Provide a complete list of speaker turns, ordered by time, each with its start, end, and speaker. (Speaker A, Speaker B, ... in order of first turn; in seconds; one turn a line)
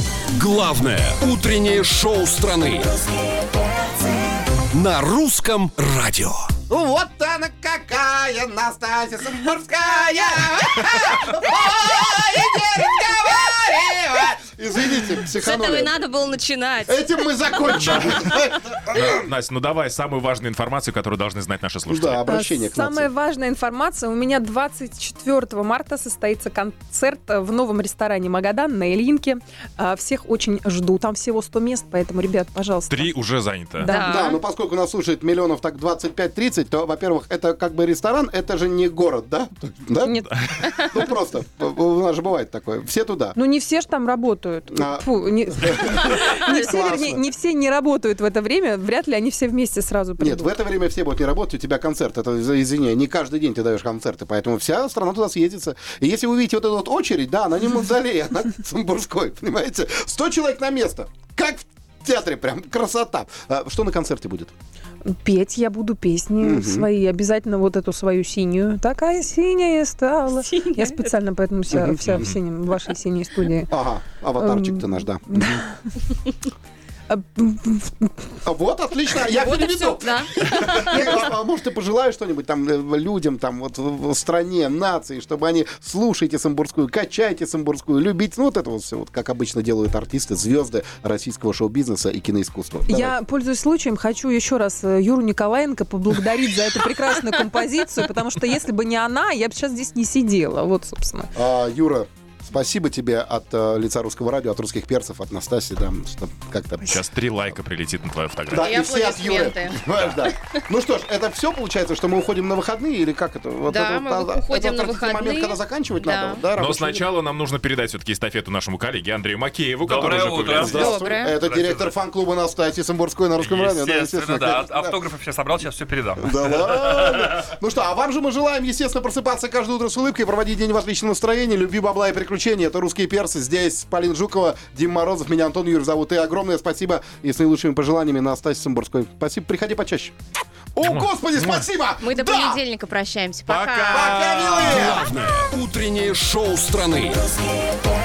Speaker A: 0.3-2.9
Speaker A: 4.7-6.5
Speaker B: 6.7-15.9
Speaker C: 15.3-17.2
Speaker B: 16.9-19.2
Speaker D: 17.8-18.1
Speaker D: 18.9-22.2
Speaker B: 21.9-23.1
Speaker E: 22.2-33.1
Speaker D: 32.9-33.9
Speaker E: 33.8-34.3
Speaker C: 33.9-34.4
Speaker B: 33.9-40.2
Speaker B: 40.8-43.4
Speaker E: 43.4-50.5
Speaker B: 44.7-47.2
Speaker B: 50.2-64.5
Speaker E: 65.0-73.7
Speaker B: 66.4-66.9
Speaker C: 70.4-71.0
Speaker B: 71.7-72.2
Speaker B: 73.7-75.6
Speaker E: 74.4-75.9
Speaker E: 77.1-78.3
Speaker B: 78.4-93.2
Speaker C: 79.1-81.3
Speaker E: 92.9-101.3
Speaker B: 101.3-107.0
Speaker D: 106.9-108.7
Speaker B: 108.5-117.1
Speaker C: 108.5-109.9
Speaker C: 113.7-116.4
Speaker D: 116.6-120.7
Speaker F: 119.9-120.9
Speaker B: 119.9-125.0
Speaker C: 120.7-121.3
Speaker F: 121.4-121.9
Speaker F: 123.8-126.1
Speaker B: 126.2-140.1
Speaker B: 140.7-142.6
Speaker D: 140.8-141.7
Speaker C: 142.0-144.3
Speaker D: 143.5-144.9
Speaker B: 143.9-145.1
Speaker A: 144.6-147.2